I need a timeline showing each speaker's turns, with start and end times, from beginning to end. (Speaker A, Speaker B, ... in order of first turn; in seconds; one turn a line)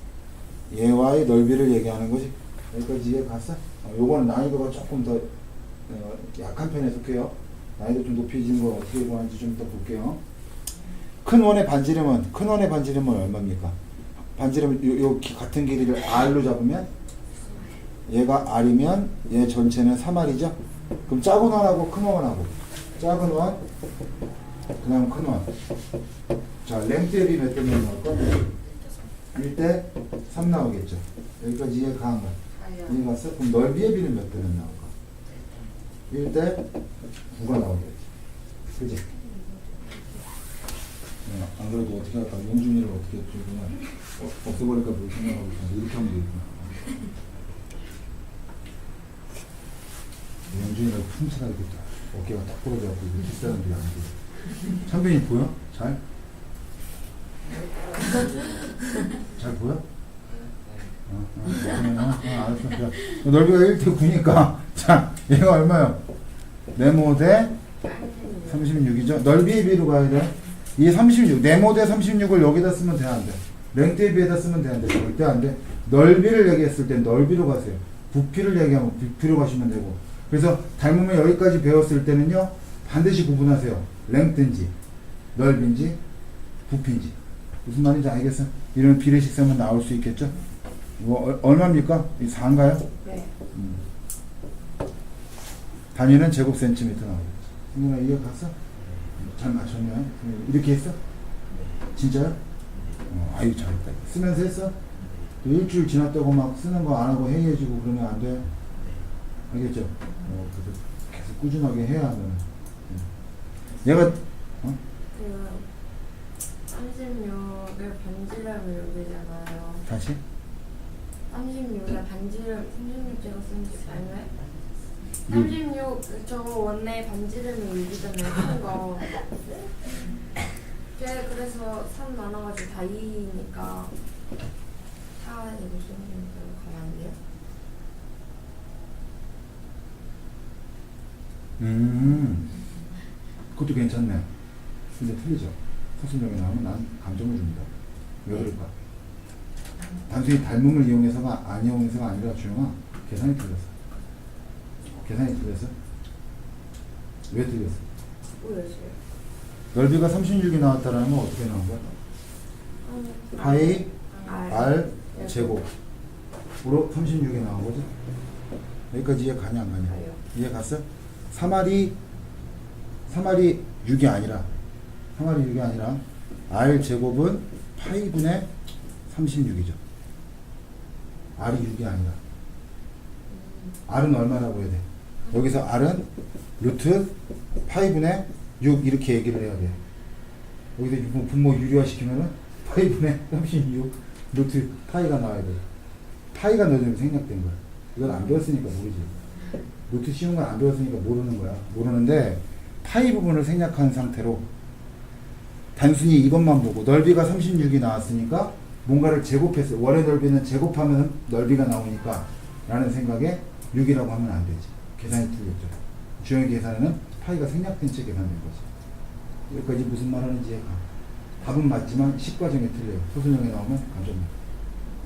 Speaker A: 0.7-5.3
Speaker A: 5.9-10.2
Speaker A: 11.2-13.8
Speaker A: 14.3-16.9
Speaker A: 18.1-20.6
Speaker A: 21.1-23.6
Speaker A: 24.8-25.5
Speaker A: 26.6-28.5
Speaker A: 29.3-34.9
Speaker A: 36.1-36.6
Speaker A: 37.3-38.0
Speaker A: 38.7-39.0
Speaker B: 39.3-39.8
Speaker A: 41.2-46.9
Speaker A: 50.5-54.1
Speaker A: 54.7-56.0
Speaker A: 59.4-59.8
Speaker A: 61.1-66.0
Speaker A: 66.8-67.5
Speaker B: 67.8-68.7
Speaker A: 68.5-84.7
Speaker A: 85.3-86.0
Speaker A: 86.7-90.4
Speaker A: 91.0-92.9
Speaker B: 93.0-93.3
Speaker A: 93.5-93.8
Speaker A: 95.9-98.5
Speaker A: 99.1-101.0
Speaker A: 101.8-102.4
Speaker A: 103.0-104.8
Speaker A: 105.4-108.5
Speaker A: 109.5-113.1
Speaker A: 113.8-114.8
Speaker B: 115.1-115.7
Speaker B: 116.7-119.9
Speaker A: 119.9-120.2
Speaker B: 121.3-124.4
Speaker A: 125.3-125.6
Speaker B: 125.3-129.2
Speaker B: 130.9-133.9
Speaker B: 135.2-137.2
Speaker A: 141.6-142.5
Speaker A: 143.5-144.3
Speaker A: 144.9-147.7
Speaker A: 148.2-148.7
Speaker A: 150.1-153.7
Speaker A: 154.9-155.7
Speaker A: 157.3-157.8
Speaker B: 158.4-159.0
Speaker A: 159.7-161.9
Speaker B: 162.8-165.6
Speaker A: 163.4-165.7
Speaker A: 166.6-167.9
Speaker A: 168.9-172.0
Speaker B: 169.9-170.2
Speaker A: 173.1-174.5
Speaker A: 175.2-178.5
Speaker A: 179.1-179.8
Speaker A: 181.4-182.2
Speaker B: 183.3-183.8
Speaker A: 183.9-187.1
Speaker A: 187.7-189.8
Speaker A: 190.8-195.6
Speaker A: 196.3-199.1
Speaker A: 199.9-204.4
Speaker A: 205.8-218.7
Speaker A: 219.5-220.8
Speaker A: 221.4-224.3